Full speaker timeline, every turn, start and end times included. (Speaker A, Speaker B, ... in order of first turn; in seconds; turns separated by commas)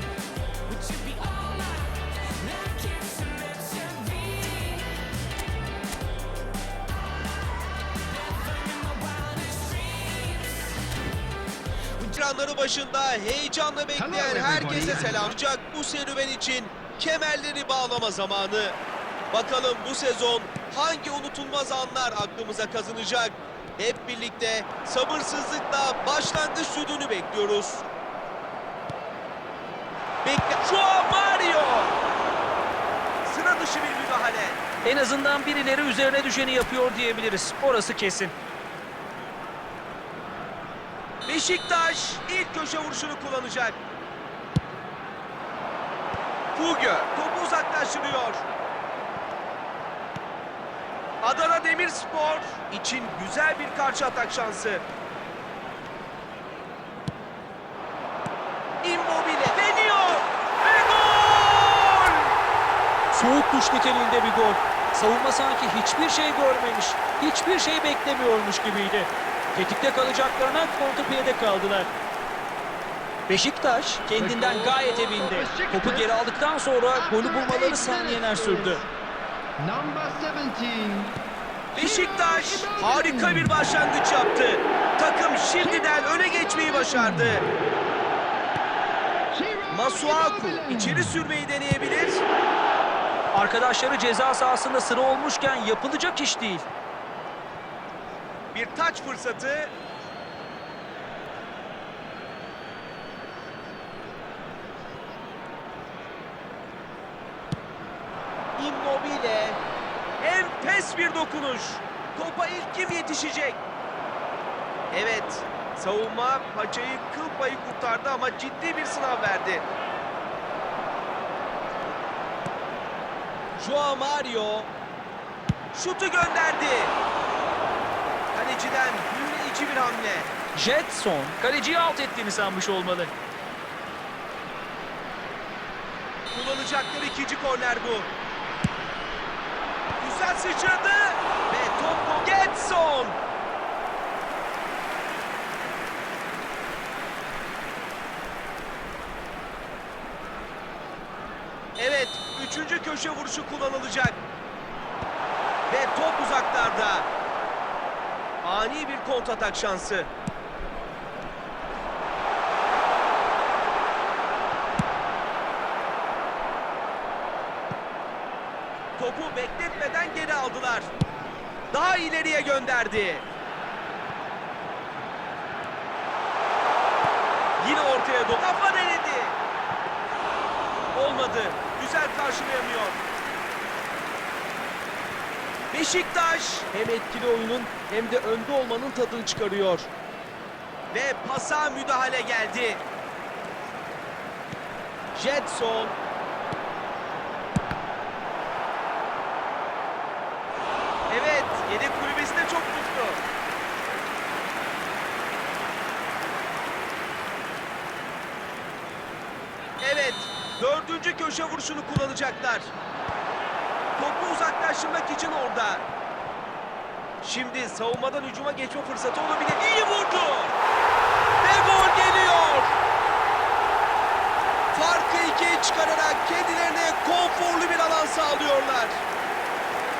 Speaker A: 0.7-4.9, Speaker A: 8.0-10.8, Speaker B: 12.0-18.8, Speaker C: 13.9-15.4, Speaker B: 19.3-27.8, Speaker B: 30.2-31.9, Speaker B: 33.2-34.6, Speaker D: 34.8-38.3, Speaker B: 41.3-43.8, Speaker B: 46.5-48.4, Speaker B: 51.2-54.8, Speaker B: 58.8-62.3, Speaker D: 63.1-71.9, Speaker D: 73.3-78.8, Speaker C: 74.2-76.2, Speaker C: 76.9-78.9, Speaker C: 79.6-81.2, Speaker C: 81.7-83.6, Speaker B: 81.7-87.5, Speaker C: 85.6-87.0, Speaker C: 89.3-91.0, Speaker B: 89.7-92.2, Speaker D: 90.7-91.0, Speaker D: 93.3-96.6, Speaker B: 98.5-99.7, Speaker B: 108.6-109.6, Speaker B: 110.2-113.6, Speaker B: 114.9-119.7, Speaker B: 123.6-124.7, Speaker B: 125.7-126.9, Speaker B: 128.3-130.3, Speaker D: 130.5-133.1, Speaker B: 136.3-138.1, Speaker B: 140.0-143.2, Speaker B: 151.8-154.2, Speaker B: 155.7-157.1, Speaker B: 158.4-160.1, Speaker B: 169.0-170.9, Speaker B: 171.7-173.2, Speaker B: 177.6-179.4, Speaker B: 180.9-183.0, Speaker B: 185.7-189.9, Speaker B: 190.9-192.8, Speaker B: 195.1-195.9, Speaker B: 201.1-203.2, Speaker B: 209.8-212.7, Speaker B: 214.0-215.8, Speaker B: 217.2-220.5, Speaker B: 221.4-222.7, Speaker B: 224.7-229.0